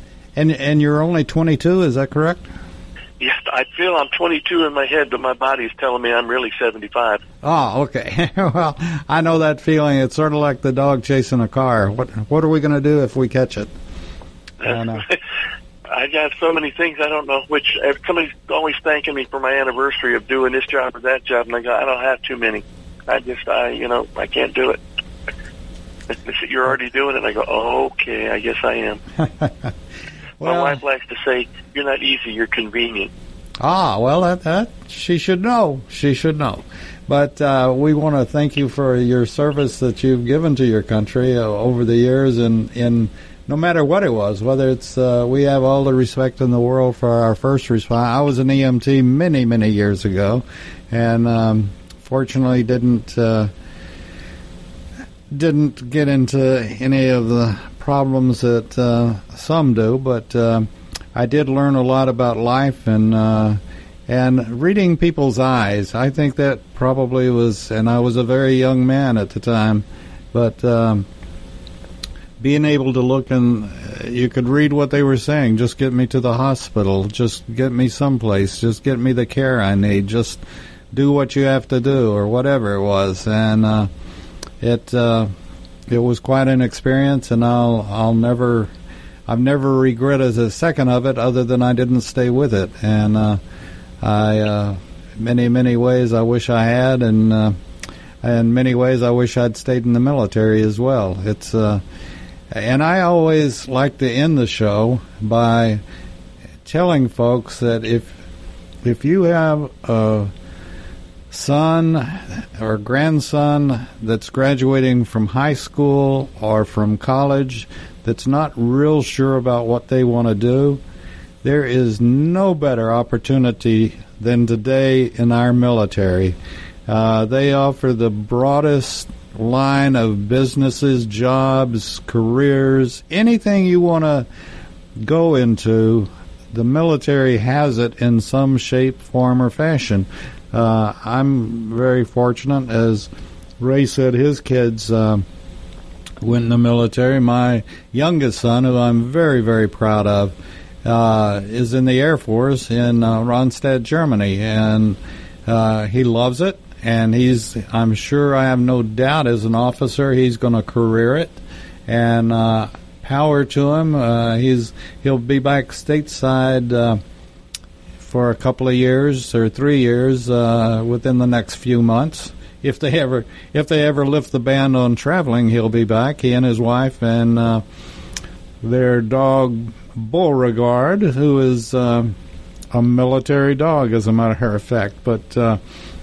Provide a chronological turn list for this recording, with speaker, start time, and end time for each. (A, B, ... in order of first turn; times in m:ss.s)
0:00.3-0:02.4 A
0:03.2-0:07.2 B
0:07.4-0:13.7 A
0:14.6-0:15.2 B
0:14.6-0:15.0 A
0:15.9-0:24.8 B
0:26.1-0:29.0 B
0:30.4-0:30.8 A
0:30.4-0:33.1 B
0:33.6-0:53.5 A
0:55.3-1:11.0 A
1:12.4-1:20.4 A
1:20.9-1:23.9 A
1:24.6-1:25.3 A
1:25.9-1:28.7 A
1:29.3-1:33.4 A
1:34.0-1:37.6 A
1:38.2-1:41.8 A
1:42.5-1:45.8 A
1:46.6-1:48.1 A
1:48.8-1:50.3 A
1:51.3-2:00.8 A
2:01.4-2:06.4 A
2:06.9-2:14.3 A
2:15.0-2:25.2 A
2:26.2-2:47.0 A
2:48.0-2:57.6 A
2:58.6-3:02.1 A
3:02.7-3:05.6 A